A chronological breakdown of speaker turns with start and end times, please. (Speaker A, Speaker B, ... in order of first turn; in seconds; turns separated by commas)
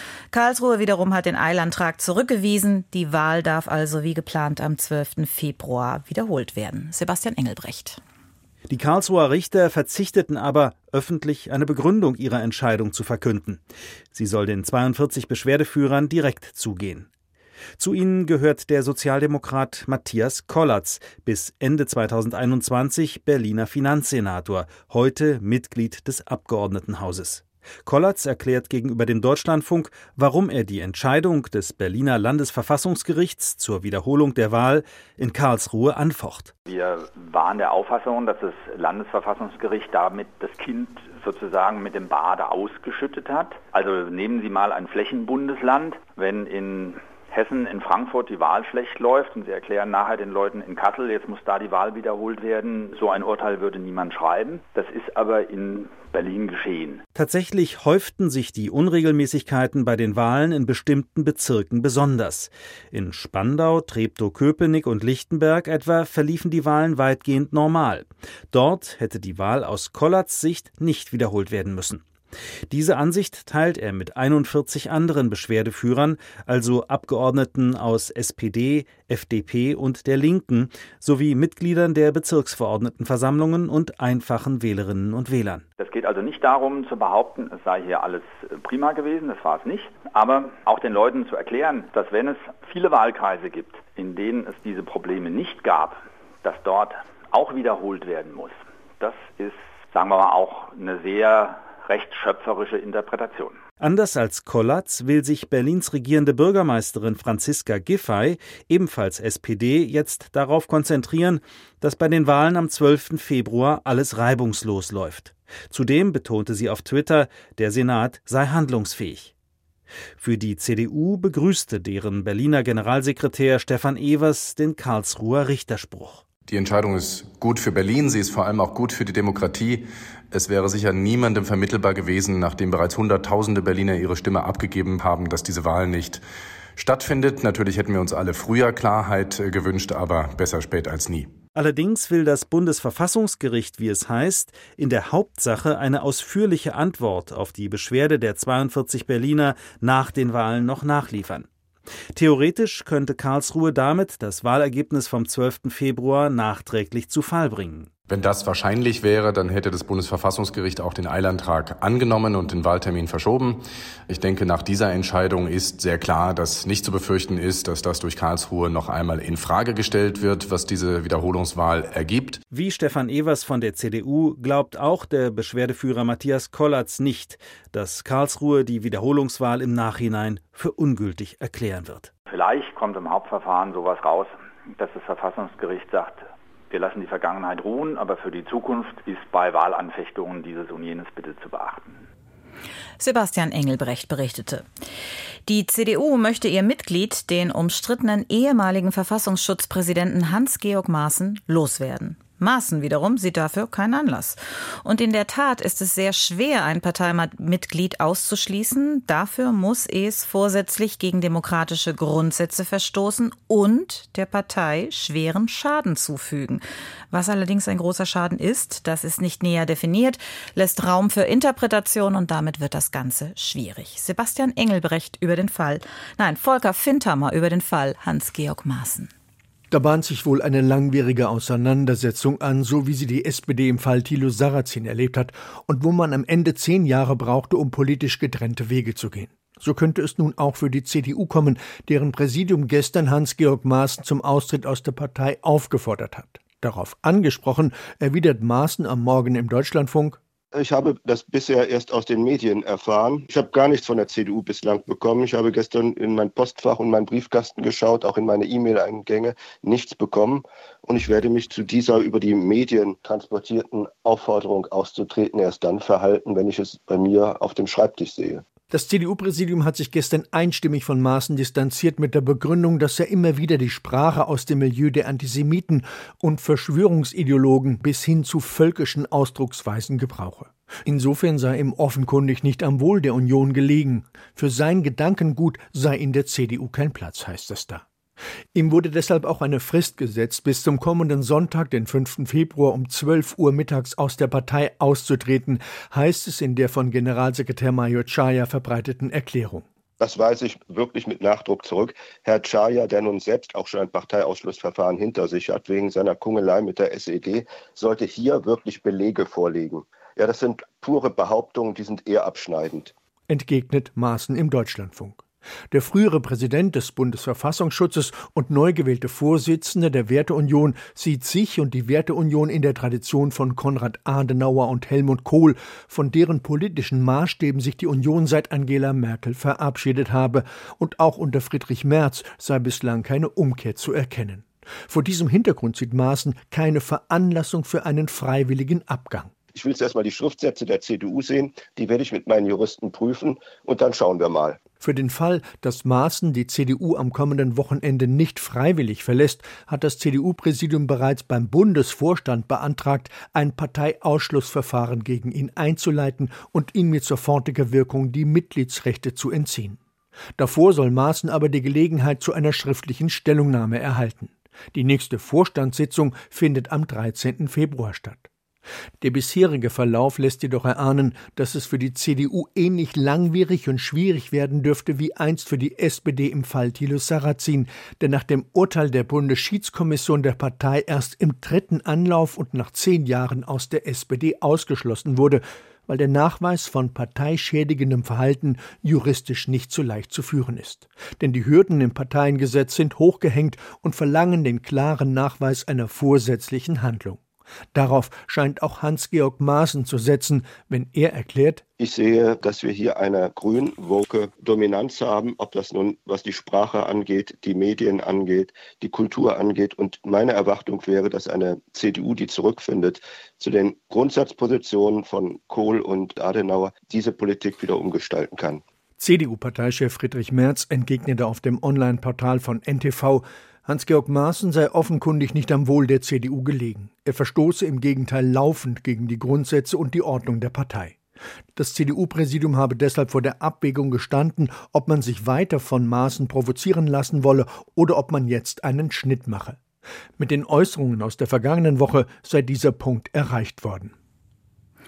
Speaker A: 0.3-8.0, Speaker B: 8.7-13.6, Speaker B: 14.1-17.1, Speaker B: 17.8-36.5, Speaker C: 36.7-57.0, Speaker B: 57.1-72.0, Speaker B: 72.7-85.6, Speaker C: 85.8-103.6, Speaker B: 103.8-119.3, Speaker B: 120.2-126.3, Speaker D: 126.5-136.2, Speaker D: 136.8-141.3, Speaker B: 141.5-151.5, Speaker B: 152.2-157.9, Speaker D: 158.1-172.4, Speaker B: 172.5-182.1, Speaker C: 182.3-192.0, Speaker A: 193.0-194.7, Speaker A: 195.5-229.1, Speaker E: 229.7-250.2, Speaker F: 250.5-268.4, Speaker E: 268.7-287.8, Speaker E: 288.5-299.6, Speaker F: 300.0-312.9, Speaker E: 313.3-339.3, Speaker F: 339.5-344.6, Speaker E: 344.8-359.8, Speaker E: 360.4-368.3, Speaker E: 369.0-397.2, Speaker E: 397.7-401.6, Speaker F: 401.8-418.6, Speaker E: 419.0-431.0, Speaker E: 431.6-439.6, Speaker E: 440.2-443.9